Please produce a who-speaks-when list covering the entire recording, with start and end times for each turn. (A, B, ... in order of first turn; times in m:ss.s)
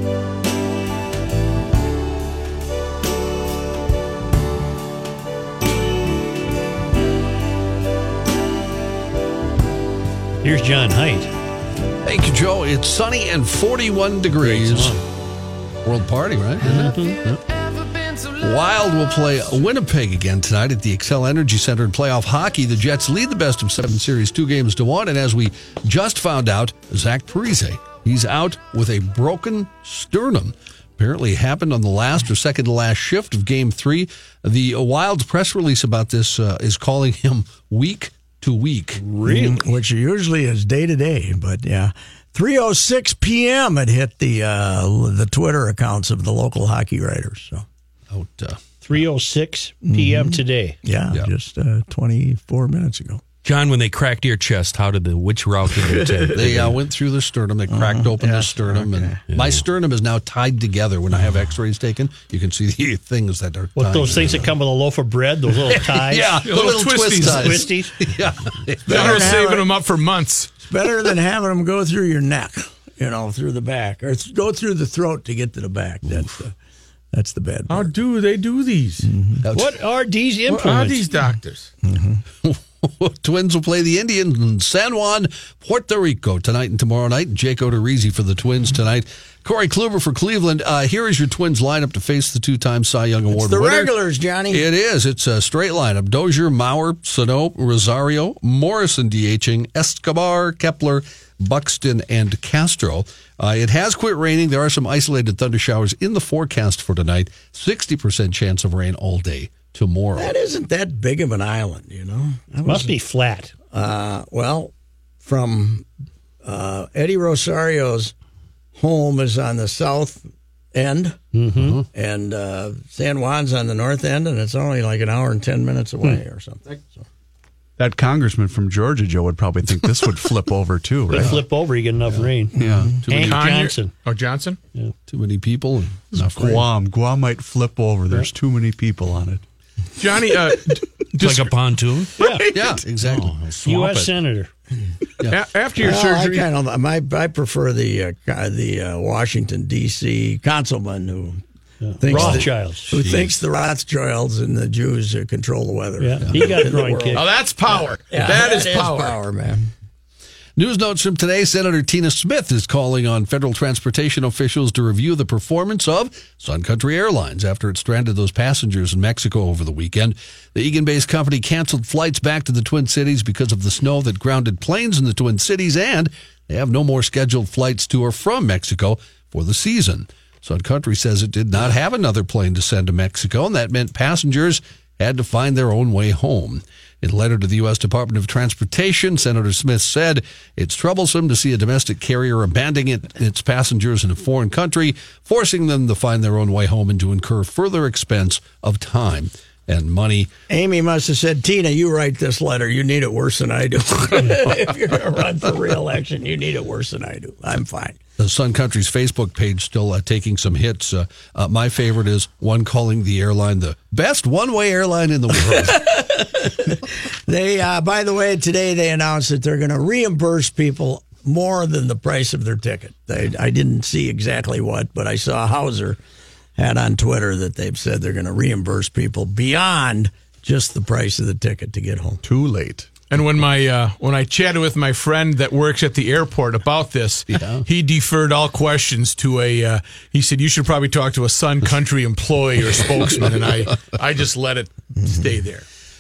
0:10.4-0:11.3 A
0:12.0-0:15.0 B
0:14.4-0:15.0 A
0:15.8-0:17.4 B
0:16.6-0:17.4 A
0:18.4-0:39.0 B
0:39.0-0:39.6 A
0:39.2-0:47.6 C
0:48.1-0:48.6 B
0:48.8-0:50.8 A
0:49.8-0:53.2 C
0:53.4-0:56.8 D
0:55.9-0:56.6 C
0:56.3-1:04.5 B
0:57.7-0:59.2 C
0:59.3-0:59.6 D
1:03.8-1:06.5 A
1:05.7-1:09.4 B
1:06.4-1:07.7 E
1:07.2-1:08.0 A
1:08.9-1:10.5 E
1:08.9-1:09.8 C
1:10.6-1:16.5 C
1:17.1-1:17.9 C
1:17.7-1:19.1 E
1:19.0-1:19.4 C
1:19.4-1:19.8 B
1:19.5-1:21.1 A
1:20.5-1:21.7 E
1:21.8-1:22.2 C
1:22.4-1:33.9 B
1:33.3-1:34.7 C
1:34.5-1:50.3 B
1:50.2-1:52.9 C
1:52.6-1:53.5 A
1:53.7-1:54.7 C
1:55.2-1:55.8 C
1:56.4-1:58.1 C
1:58.8-2:01.2 C
2:01.3-2:01.8 A
2:01.6-2:01.8 B
2:01.9-2:07.0 C
2:07.8-2:11.4 F
2:11.1-2:13.9 A
2:12.6-2:13.0 F
2:13.0-2:13.5 B
2:13.2-2:14.6 E
2:15.1-2:16.7 B
2:16.1-2:19.4 F
2:20.0-2:21.5 E
2:21.2-2:22.1 D
2:22.2-2:22.5 A
2:22.5-2:23.4 B
2:23.0-2:24.1 D
2:23.6-2:24.5 A
2:25.2-2:26.5 E
2:25.8-2:31.4 C
2:31.8-2:32.9 A
2:32.0-2:39.7 C
2:33.0-2:33.3 B
2:36.0-2:37.2 A
2:37.1-2:39.2 E
2:40.6-3:20.3 B
3:20.5-3:28.0 C
3:28.2-3:35.9 B
3:35.5-3:46.0 C
3:46.6-3:52.2 C
3:52.2-3:52.9 F
3:53.1-4:05.7 E
3:57.3-3:57.6 B